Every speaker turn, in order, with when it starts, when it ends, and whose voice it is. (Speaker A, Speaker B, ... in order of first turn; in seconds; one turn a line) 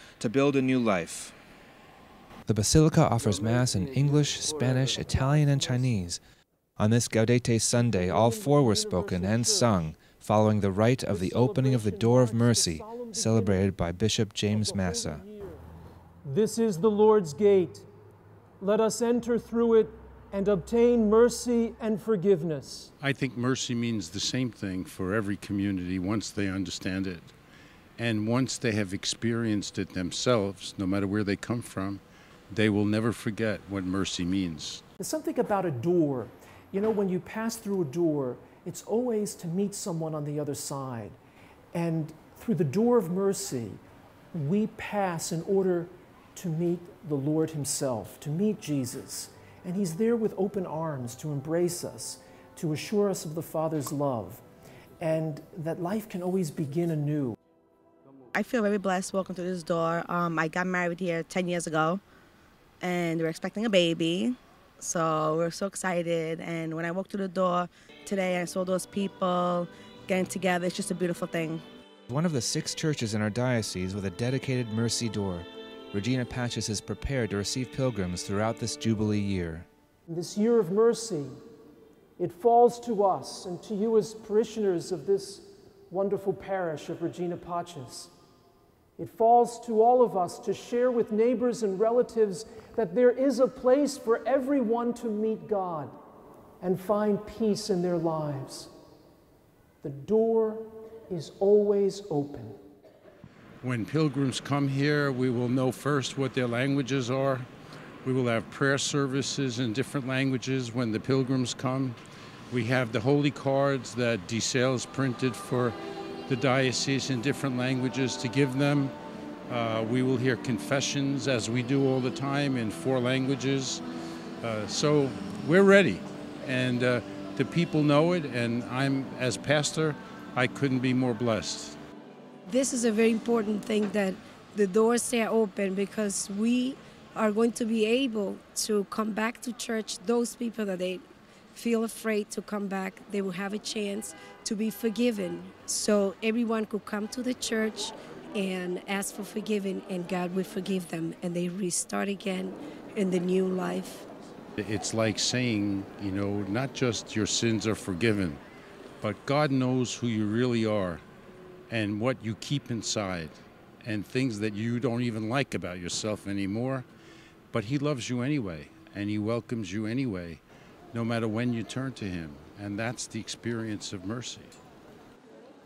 Speaker A: 0.2-1.3
Speaker A: 2.5-6.2
Speaker B: 4.5-5.9
Speaker A: 6.8-15.2
Speaker B: 7.7-9.8
Speaker B: 11.1-13.8
Speaker B: 14.5-15.6
Speaker B: 16.2-17.9
Speaker B: 18.6-22.9
Speaker C: 23.0-27.3
Speaker C: 28.0-34.8
Speaker B: 35.0-41.2
Speaker B: 41.7-43.8
Speaker B: 44.3-54.4
Speaker B: 55.0-57.4
Speaker D: 58.3-62.0
Speaker D: 62.8-71.6
Speaker A: 72.1-79.7
Speaker B: 80.1-81.3
Speaker B: 82.2-88.1
Speaker B: 89.0-95.9
Speaker B: 96.6-98.7
Speaker B: 99.8-102.6
Speaker C: 103.6-107.5
Speaker C: 108.0-112.0
Speaker C: 112.5-115.8
Speaker C: 116.3-118.9
Speaker C: 119.5-123.8
Speaker C: 124.4-131.8
Speaker E: 132.5-141.0
Speaker E: 141.5-154.1
Speaker C: 154.6-158.4
Speaker C: 159.0-161.0
Speaker C: 161.7-166.8
Speaker C: 167.5-174.5